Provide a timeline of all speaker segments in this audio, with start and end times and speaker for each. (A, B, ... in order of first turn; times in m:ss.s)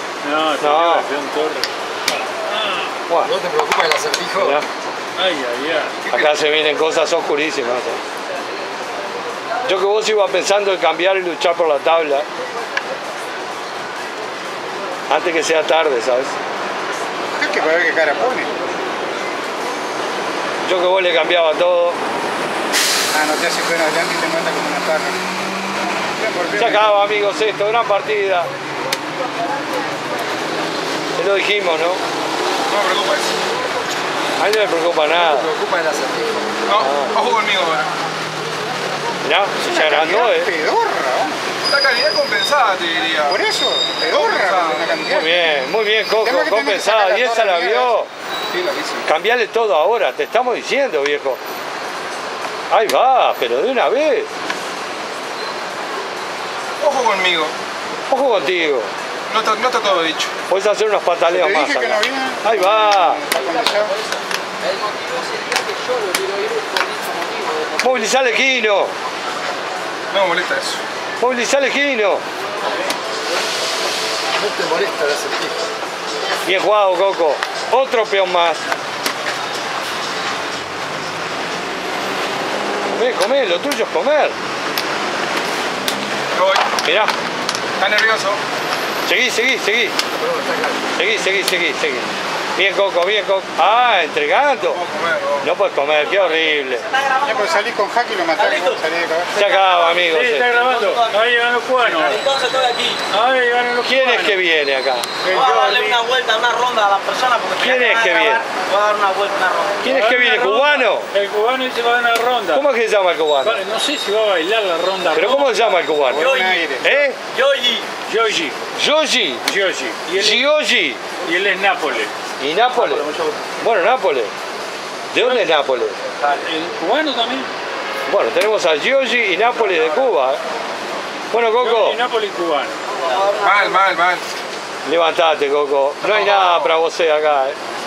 0:00.2-0:03.0 A
0:00.6-0:01.1 B
0:03.2-0:04.6 C
0:04.4-0:04.6 B
0:05.2-0:06.0 A
0:06.1-0:06.4 D
0:06.1-0:08.0 B
0:09.7-0:12.3 B
0:15.1-0:16.4 B
0:17.3-0:18.5 E
0:20.7-0:22.0 B
0:23.1-0:25.2 E
0:26.1-0:27.0 E
0:26.6-0:28.5 B
0:31.2-0:32.0 B
0:32.7-0:33.4 D
0:34.4-0:35.5 B
0:35.1-0:36.6 C
0:36.7-0:37.9 D
0:36.8-0:37.1 B
0:39.2-0:40.5 B
0:39.6-0:41.4 E
0:41.7-0:43.4 D
0:43.3-0:45.6 E
0:44.1-0:44.9 D
0:45.1-0:48.1 B
0:46.1-0:48.0 E
0:48.5-0:49.1 D
0:49.0-0:51.4 B
0:52.7-0:54.3 B
0:56.8-0:57.5 D
0:58.1-0:58.9 B
0:59.3-1:00.3 D
1:00.5-1:03.2 B
1:01.3-1:04.0 E
1:07.8-1:09.0 B
1:10.1-1:10.8 D
1:11.2-1:12.2 B
1:14.4-1:15.7 C
1:16.4-1:18.6 B
1:22.8-1:24.4 B
1:26.3-1:26.6 D
1:26.8-1:27.1 B
1:27.8-1:28.4 D
1:29.1-1:29.9 B
1:30.2-1:30.9 C
1:31.0-1:34.8 B
1:34.6-1:35.5 D
1:35.4-1:36.9 B
1:36.8-1:37.4 F
1:37.2-1:39.3 E
1:38.4-1:38.8 F
1:39.3-1:40.5 B
1:39.4-1:39.8 F
1:40.0-1:42.3 A
1:40.6-1:41.1 F
1:42.0-1:43.0 F
1:43.1-1:44.4 A
1:43.8-1:45.1 B
1:45.2-1:46.0 A
1:45.3-1:49.8 F
1:47.6-1:48.4 B
1:49.8-1:51.1 B
1:49.8-1:52.7 A
1:52.5-1:53.6 B
1:53.4-1:55.7 A
1:55.1-1:57.2 B
1:56.1-1:56.9 E
1:56.2-1:57.8 F
1:58.1-1:58.6 A
1:58.8-1:59.5 B
1:59.4-2:00.4 A
2:00.1-2:01.0 B
2:01.2-2:02.1 A
2:02.4-2:03.1 B
2:03.6-2:04.3 B
2:05.1-2:06.0 B
2:06.2-2:07.5 A
2:08.1-2:10.4 B
2:11.3-2:12.0 B
2:11.6-2:12.8 A
2:13.4-2:14.2 D
2:14.8-2:17.6 B
2:16.0-2:16.7 D